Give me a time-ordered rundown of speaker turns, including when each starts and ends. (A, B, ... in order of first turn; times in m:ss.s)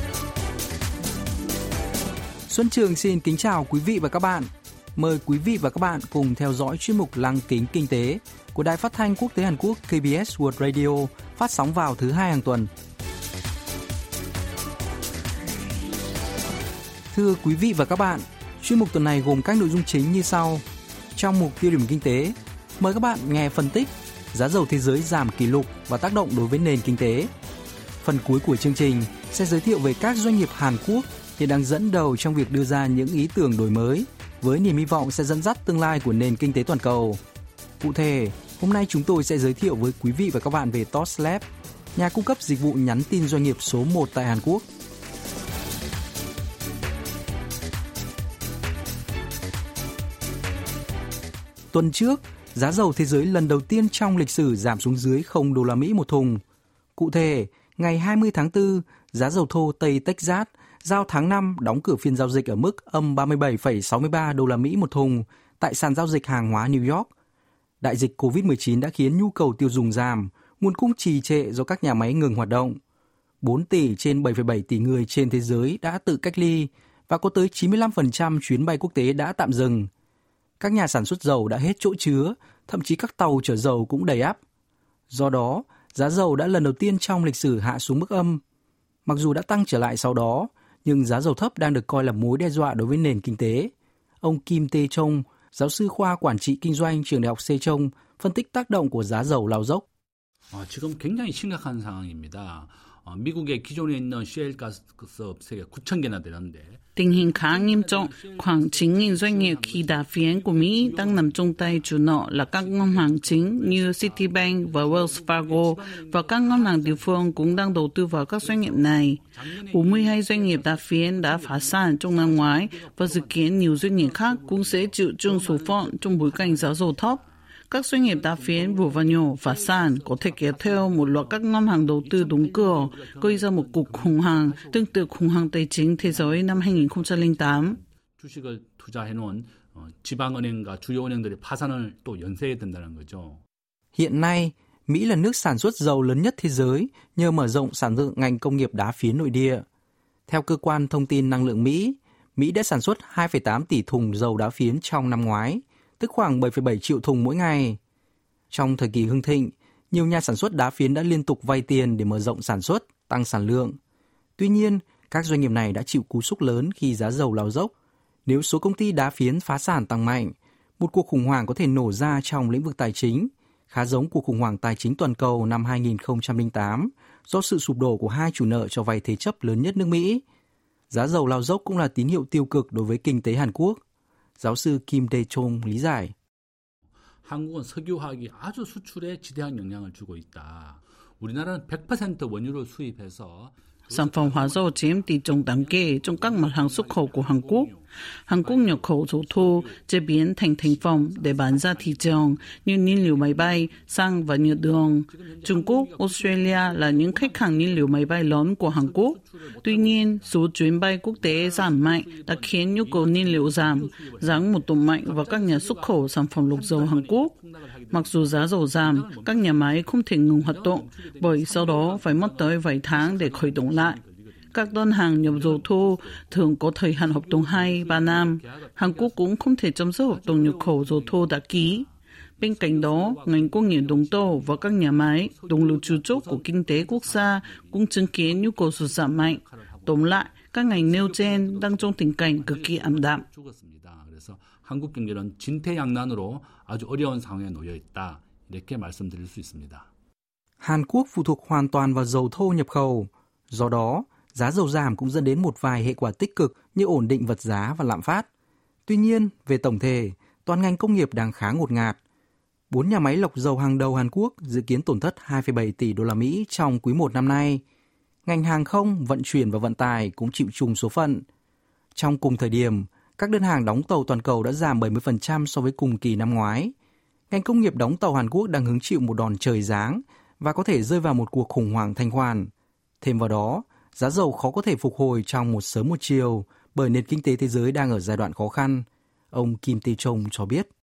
0:02.5-0:12.7 A
0:17.1-0:20.6 A
0:21.1-0:27.3 A
0:28.0-0:37.2 A
0:37.8-0:44.6 A
0:51.7-0:56.4 A
0:57.0-1:07.1 A
1:07.8-1:12.8 A
1:13.4-1:19.9 A
1:20.6-1:24.4 A
1:25.1-1:28.4 A
1:29.0-1:39.8 A
1:40.5-2:07.5 B
1:46.9-2:17.8 C
2:08.0-2:23.4 B
2:23.9-2:29.6 A
2:30.3-2:37.8 A
2:38.5-2:43.8 A
2:44.4-2:47.7 A
2:48.3-3:00.2 A
3:00.9-3:03.8 A
3:04.4-3:06.1 A
3:07.2-3:19.9 B
3:13.9-3:17.7 C
3:18.3-3:37.3 C
3:20.6-3:28.1 B
3:28.7-3:30.5 B
3:31.1-3:39.7 B
3:37.9-3:44.0 C
3:40.4-3:49.3 B
3:44.5-3:51.9 C
3:50.1-4:09.8 B
3:52.4-4:03.2 C
4:10.6-4:18.3 A
4:18.9-4:22.0 A
4:22.7-4:27.6 A
4:28.2-4:31.2 A
4:31.9-4:36.7 A
4:37.3-4:50.7 A